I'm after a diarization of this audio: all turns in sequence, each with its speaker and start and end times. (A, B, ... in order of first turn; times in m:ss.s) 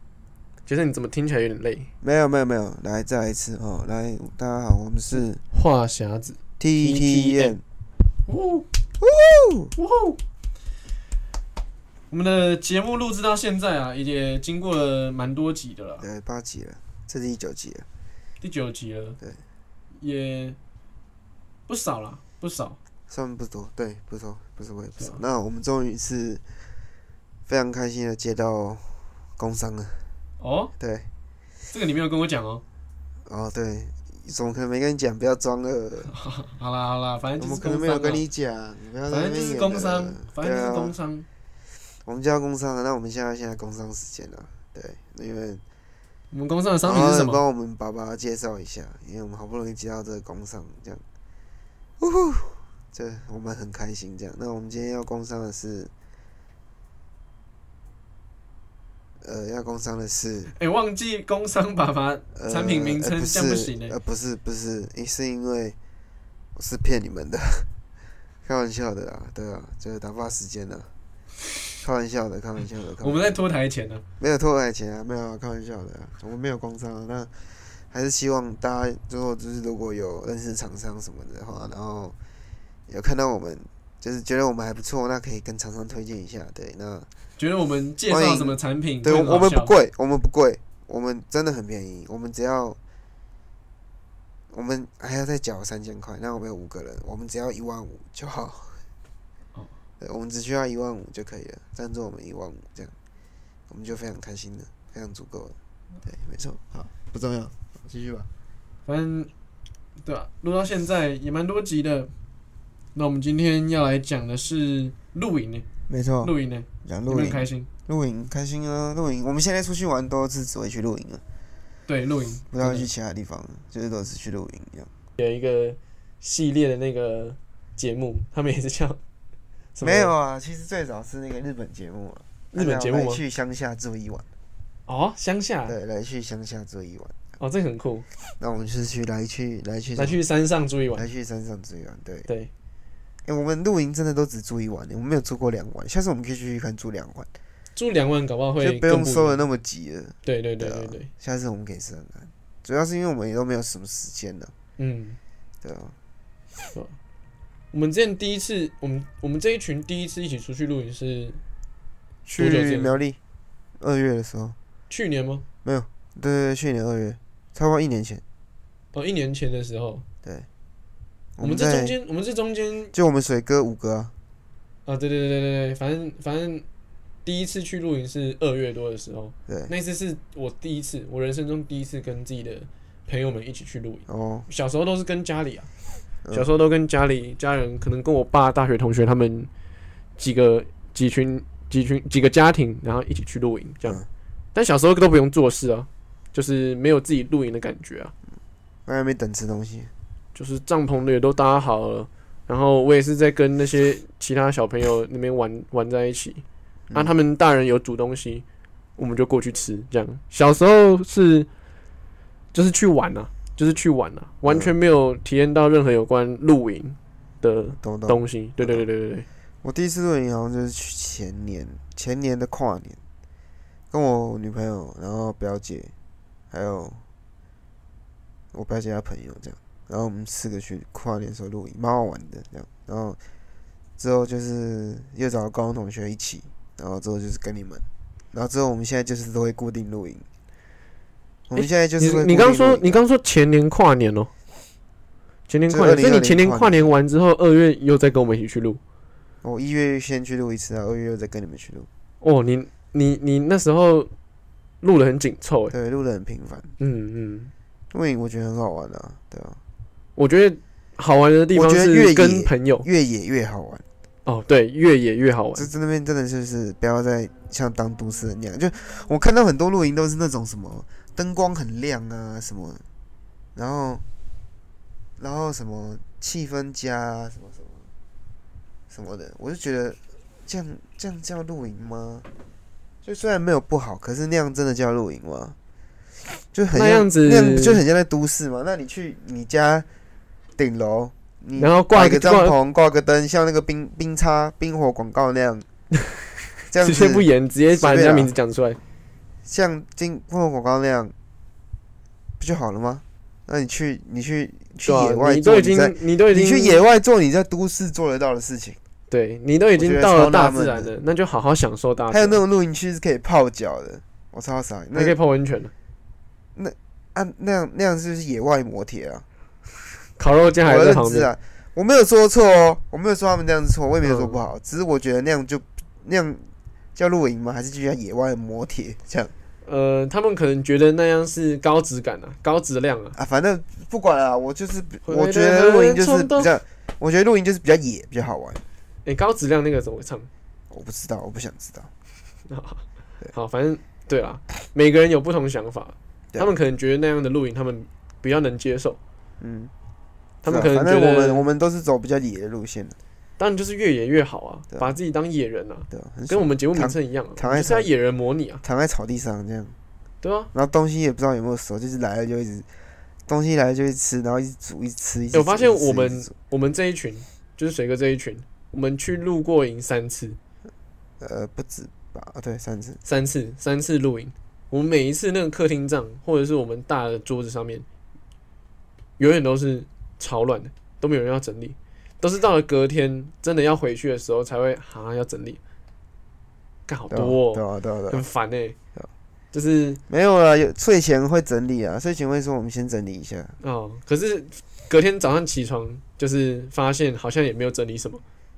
0:00.7-0:01.9 A
0:02.0-0:05.4 B
0:05.5-0:07.6 A
0:06.6-0:07.6 B
0:08.2-0:08.7 A
0:09.0-0:09.7 B
0:09.8-0:10.2 A
0:12.1-0:16.0 A
0:16.0-0:17.9 B
0:18.4-0:19.2 A
0:20.0-0:20.6 A
0:21.7-0:22.8 A
0:23.1-0:26.4 B
0:27.5-0:30.1 B
0:30.4-0:30.7 A
0:30.8-0:31.1 B
0:31.7-0:32.6 A
0:33.2-0:36.1 B
0:36.1-0:38.2 A
0:37.4-0:40.9 B
0:39.1-0:41.2 A
0:42.0-0:45.6 B
0:46.3-0:47.4 A
0:46.8-0:51.0 B
0:52.0-0:55.9 B
0:59.2-1:00.5 B
1:00.5-1:03.9 A
1:02.3-1:05.8 B
1:06.5-1:07.7 B
1:08.4-1:10.9 B
1:11.8-1:13.4 B
1:13.0-1:14.0 A
1:14.2-1:22.1 B
1:22.9-1:27.1 B
1:27.4-1:29.7 A
1:28.1-1:32.8 B
1:34.5-1:38.8 B
1:40.0-1:42.9 B
1:43.7-1:48.3 B
1:48.8-1:49.3 A
1:50.0-1:52.1 A
1:52.9-1:55.6 A
1:55.9-2:01.2 B
1:56.2-1:57.7 A
2:01.9-2:02.9 A
2:02.5-2:04.9 B
2:05.2-2:09.0 A
2:09.7-2:10.1 A
2:09.8-2:14.2 B
2:12.5-2:13.2 A
2:14.9-2:15.8 A
2:15.6-2:17.2 B
2:17.4-2:18.0 A
2:18.3-2:20.2 B
2:20.0-2:21.0 A
2:21.0-2:22.3 B
2:23.2-2:27.3 B
2:27.8-2:29.4 A
2:28.6-2:34.5 B
2:30.2-2:31.1 A
2:34.8-2:35.2 A
2:35.6-2:36.0 B
2:37.7-2:41.4 A
2:42.3-2:43.2 B
2:42.3-2:42.9 A
2:43.8-2:44.6 B
2:44.9-2:45.4 A
2:45.6-2:48.2 B
2:48.9-2:50.0 A
2:51.4-2:52.0 B
2:51.4-2:52.9 A
2:52.9-2:54.1 B
2:54.8-2:56.6 A
2:57.2-3:05.7 A
2:59.5-2:59.7 B
3:04.1-3:04.5 B
3:06.3-3:09.5 A
3:10.2-3:14.0 A
3:14.5-3:18.1 A
3:18.8-3:19.9 B
3:20.3-3:28.4 A
3:29.0-3:31.5 A
3:32.5-3:39.2 A
3:34.5-3:34.7 B
3:37.8-3:38.8 B
3:39.6-3:43.0 B
3:43.9-3:45.9 B
3:46.5-3:47.0 B
3:48.5-3:53.2 B
3:54.0-4:00.2 B
4:01.5-4:03.0 B
4:01.6-4:04.3 A
4:05.5-4:08.8 A
4:05.7-4:06.9 B
4:09.4-4:11.9 B
4:12.2-4:14.1 A
4:14.8-4:15.7 A
4:15.7-4:16.7 B
4:16.8-4:17.5 A
4:17.9-4:19.6 B
4:20.2-4:22.9 A
4:21.5-4:23.8 B
4:24.2-4:25.7 A
4:25.5-4:32.8 B
4:33.5-4:34.0 B
4:35.2-4:37.9 B
4:38.9-4:42.3 B
4:43.0-4:45.6 B
4:46.3-4:49.9 B
4:46.7-4:47.8 A
4:50.6-4:55.6 B
4:51.6-4:52.5 A
4:56.7-4:57.2 B
4:56.8-4:58.8 A
4:57.8-4:58.3 B
4:59.4-5:01.1 B
5:02.4-5:08.8 B
5:04.8-5:06.8 A
5:09.1-5:12.4 A
5:09.8-5:10.9 B
5:12.1-5:15.2 B
5:14.9-5:15.7 A
5:16.6-5:19.2 B
5:20.2-5:21.3 A
5:20.6-5:29.3 B
5:24.0-5:24.4 A
5:29.6-5:33.2 A
5:33.1-5:38.6 B
5:35.0-5:36.5 A
5:39.0-5:40.3 A
5:40.7-5:41.9 B
5:42.5-5:49.0 A
5:49.4-5:49.7 B
5:50.4-5:51.4 A
5:50.4-5:53.0 B
5:53.4-5:58.6 A
5:54.7-5:55.0 B
5:55.9-5:57.9 B
5:58.6-5:59.8 B
6:00.2-6:00.5 A
6:00.5-6:02.7 B
6:03.3-6:06.3 B
6:05.3-6:10.4 A
6:11.2-6:13.0 B
6:13.0-6:17.8 A
6:19.2-6:25.6 A
6:26.9-6:28.8 A
6:27.1-6:28.2 B
6:29.5-6:30.0 A
6:30.1-6:33.6 B
6:33.6-6:38.2 A